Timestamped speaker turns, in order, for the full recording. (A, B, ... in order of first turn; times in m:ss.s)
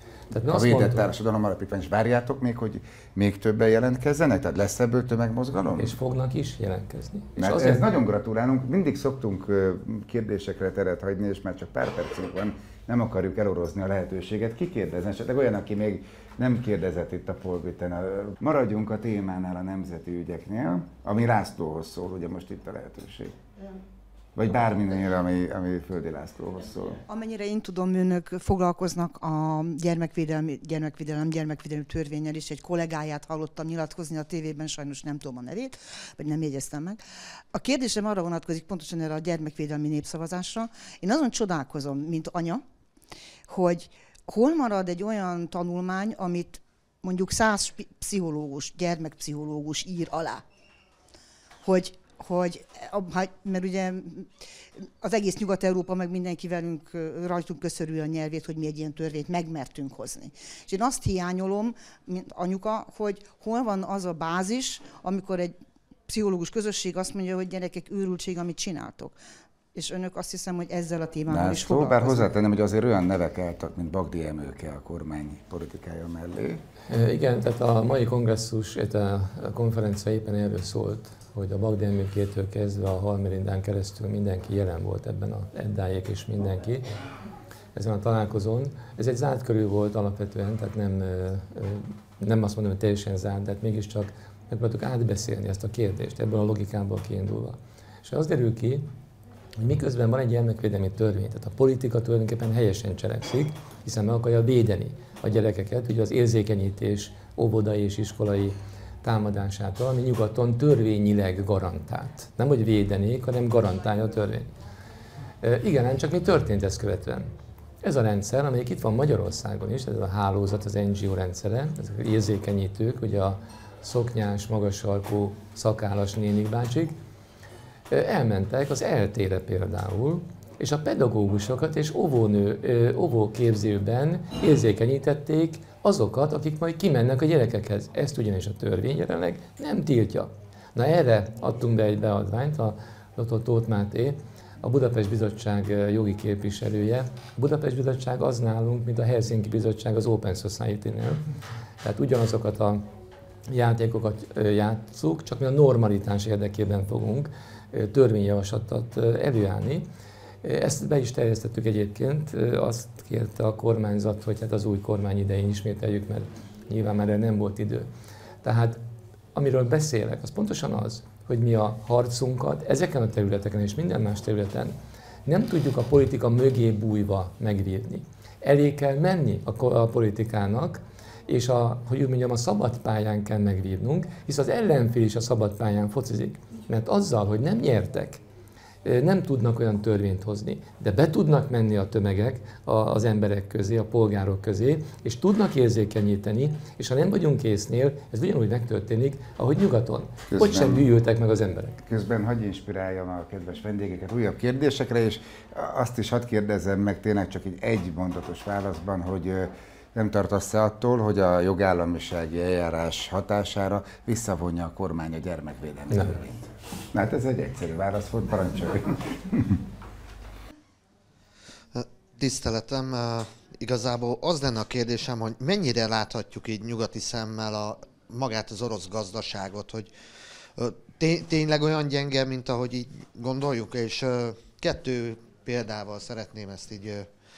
0:00.3-0:01.1 A
0:00.4-0:05.9 B
0:05.8-0:07.8 A
0:07.4-0:23.4 B
0:24.4-0:27.0 B
0:27.1-0:37.0 C
0:37.5-0:42.6 C
0:43.5-0:50.4 C
0:51.6-1:09.2 C
1:09.7-1:12.3 C
1:11.3-1:16.6 B
1:16.9-1:26.9 A
1:27.7-1:38.9 A
1:39.6-1:54.5 A
1:55.4-1:57.3 A
1:57.8-2:07.0 A
2:07.9-2:31.2 A
2:31.8-2:32.9 A
2:33.5-2:39.9 A
2:40.4-2:47.9 A
2:48.4-2:48.8 A
2:49.3-2:54.7 A
2:55.2-3:08.2 A
3:08.8-3:21.8 A
3:20.3-3:20.8 B
3:21.9-3:39.6 B
3:35.9-3:36.2 A
3:41.7-3:57.1 D